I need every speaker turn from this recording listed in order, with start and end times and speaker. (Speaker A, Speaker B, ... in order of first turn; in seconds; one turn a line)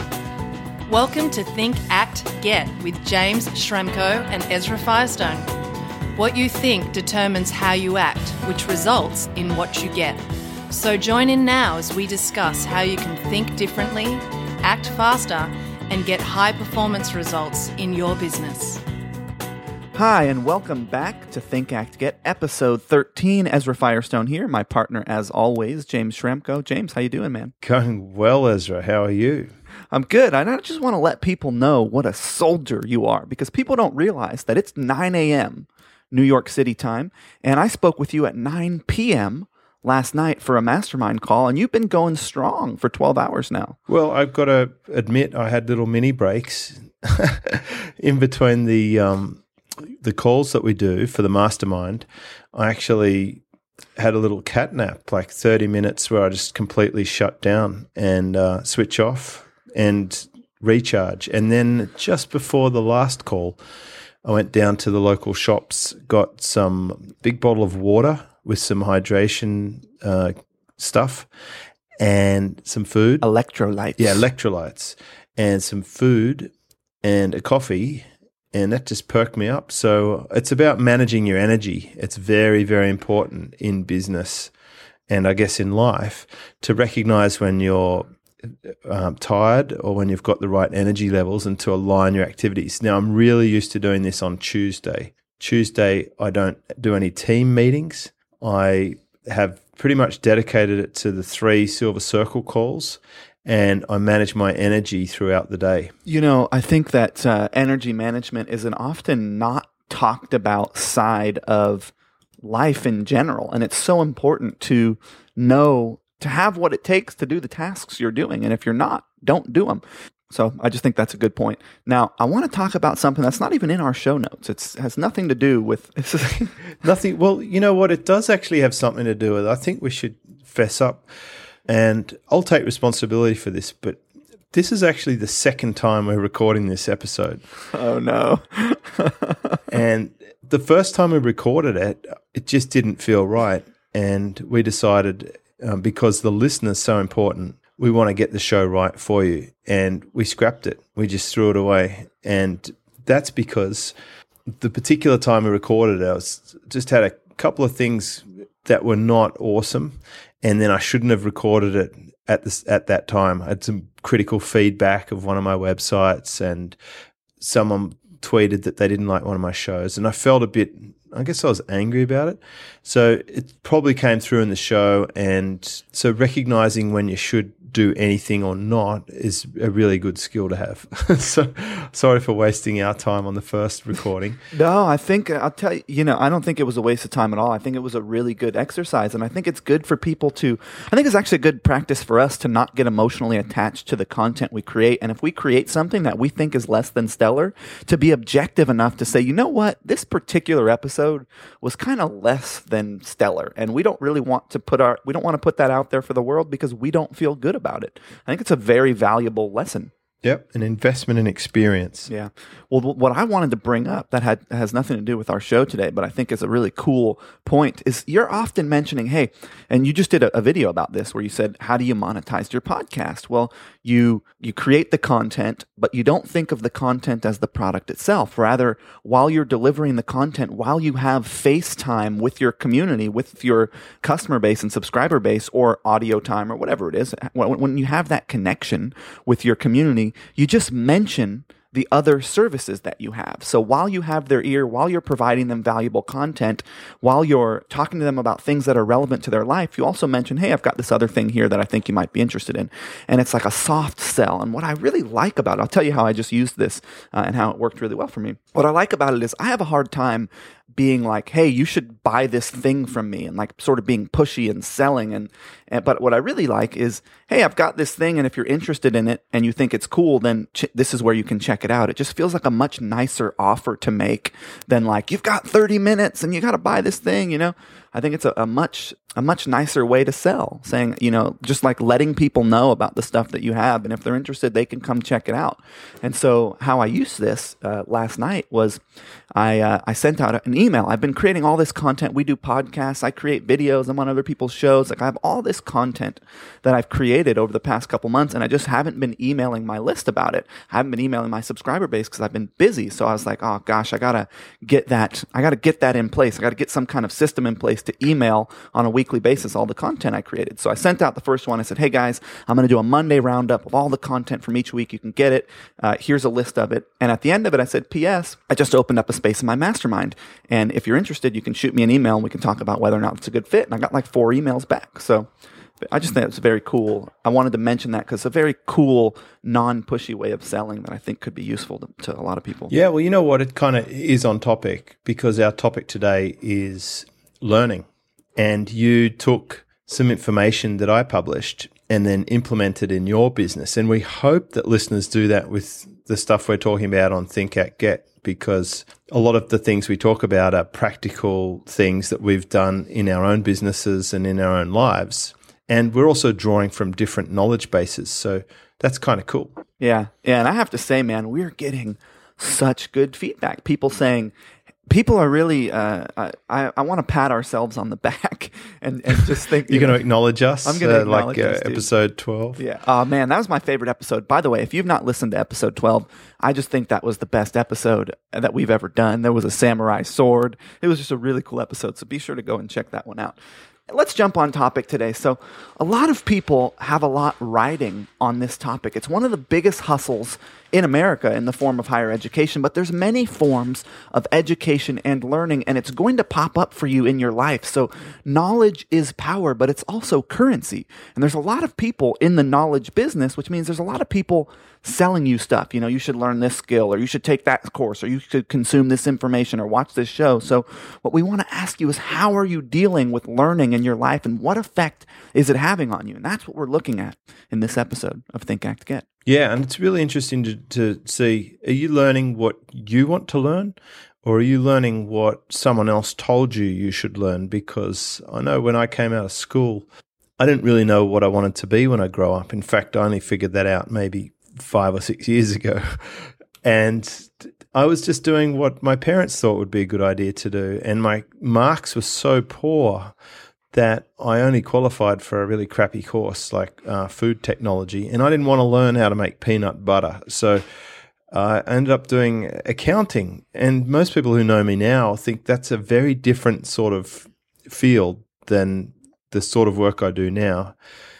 Speaker A: 0.9-5.5
Speaker A: 6.2-18.8
Speaker B: 20.0-27.5
Speaker C: 27.6-29.5
Speaker B: 29.9-43.8
Speaker C: 43.9-53.4
Speaker C: 54.0-63.6
Speaker C: 64.2-71.3
Speaker C: 72.0-73.3
Speaker B: 73.2-74.3
Speaker C: 74.0-76.5
Speaker C: 77.0-84.5
Speaker C: 85.1-105.9
Speaker B: 106.1-126.5
Speaker C: 126.8-131.1
Speaker C: 131.7-137.4
Speaker B: 137.7-139.6
Speaker C: 139.7-153.9
Speaker C: 154.5-166.8
Speaker C: 167.4-184.4
Speaker B: 184.5-209.9
Speaker C: 210.2-212.1
Speaker B: 212.1-288.8
Speaker B: 289.4-325.3
Speaker B: 325.9-332.7
Speaker C: 332.7-359.6
Speaker B: 359.8-364.3
Speaker B: 364.9-370.0
Speaker C: 369.7-372.6
Speaker B: 370.6-371.9
Speaker B: 372.6-383.4
Speaker B: 383.9-419.1
Speaker C: 419.3-429.9
Speaker C: 430.4-443.1
Speaker C: 443.7-450.6
Speaker C: 451.3-460.8